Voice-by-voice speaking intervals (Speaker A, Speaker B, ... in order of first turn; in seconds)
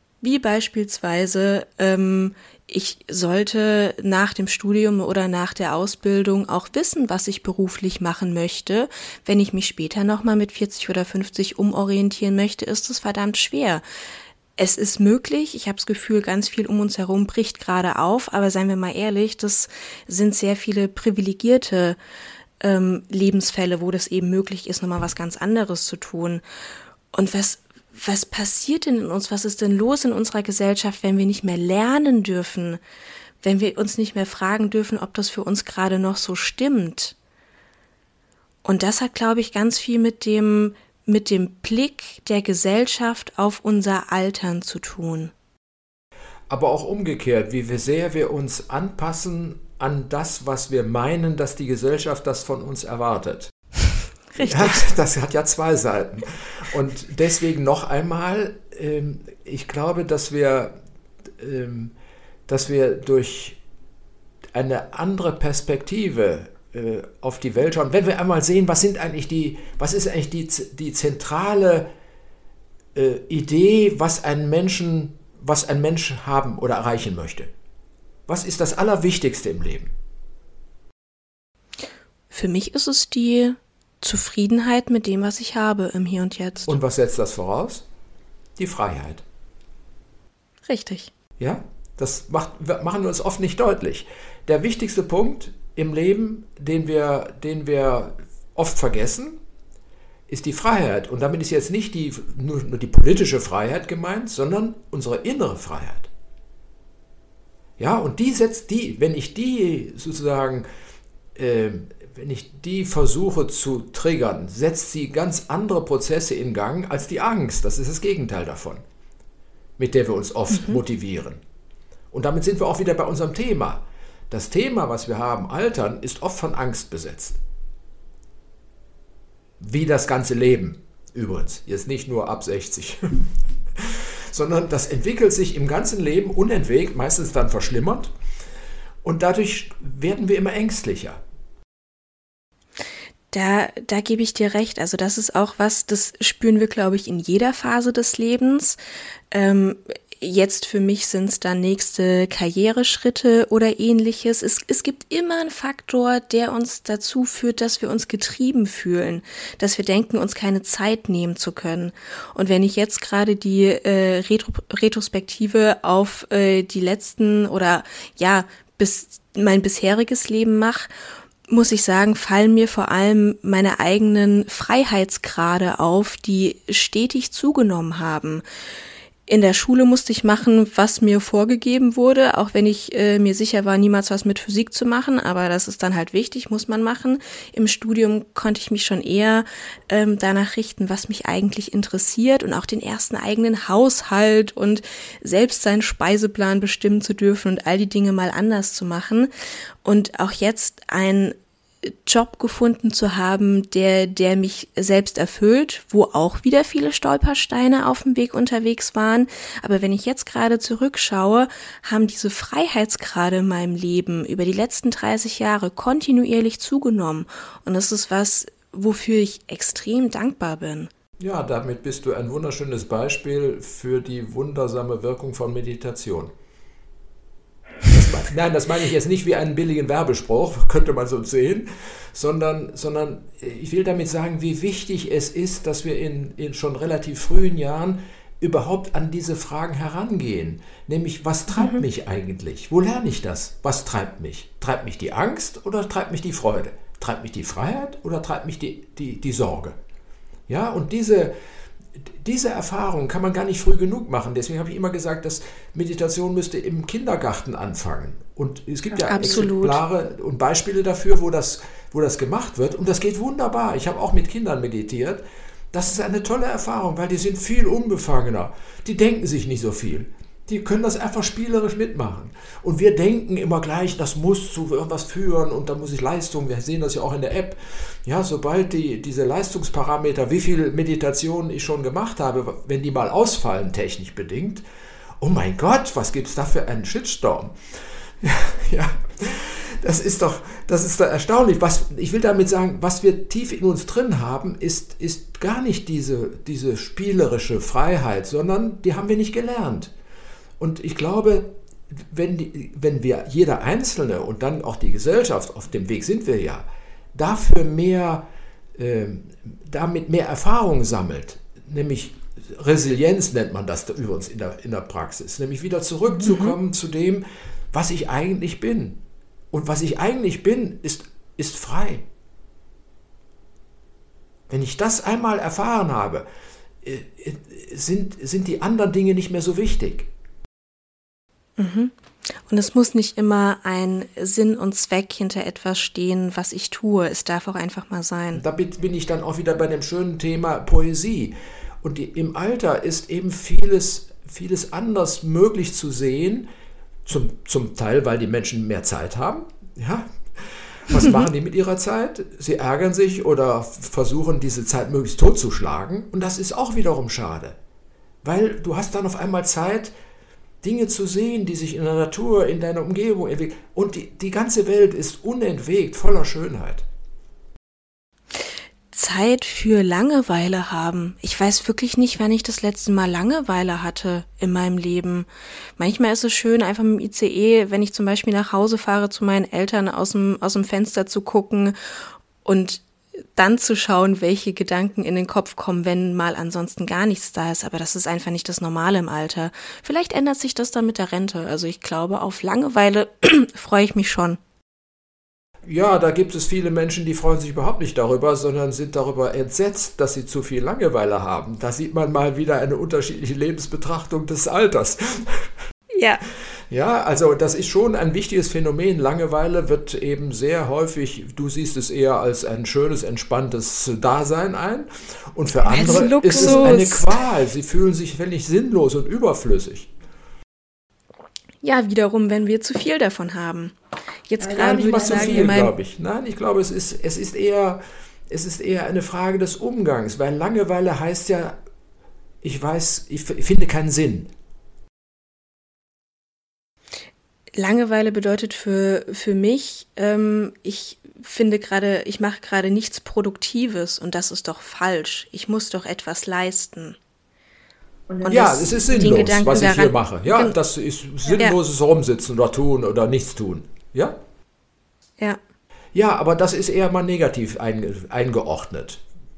Speaker A: 0.2-13.8, 14.6-22.0, 22.6-26.4, 27.1-32.8, 33.4-37.1, 38.6-45.3, 54.4-54.9, 82.3-86.8, 90.7-91.1, 120.5-120.8, 143.3-148.8, 149.3-170.9, 171.5-178.4, 179.3-199.3, 199.8-220.9, 241.6-241.8, 258.9-259.8, 316.2-316.6, 331.6-331.9, 332.4-338.4, 368.9-381.7, 382.4-382.8, 383.3-394.4, 405.9-406.2, 415.6-417.1, 421.6-423.8, 424.3-425.7, 437.6-447.0, 448.2-450.6
Speaker B: 46.5-53.5, 54.4-60.7, 61.4-61.9, 62.5-63.6, 64.5-71.9, 72.9-77.5, 78.3-79.9, 86.7-87.8, 88.6-89.2, 91.4-99.4, 100.3-106.1, 107.8-110.7, 111.3-118.8, 119.8-121.4, 122.1-127.4, 129.6-138.1, 139.0-141.2, 221.2-226.3, 227.9-249.8, 250.5-251.3, 252.0-284.6, 285.2-287.6, 288.2-299.9, 300.6-322.1, 324.5-326.3, 326.8-330.1, 338.3-346.5, 347.1-357.6, 358.2-359.9, 360.6-366.9, 395.6-405.5, 406.7-419.9, 424.4-431.6, 432.4-434.3, 448.2-454.2, 455.9-459.0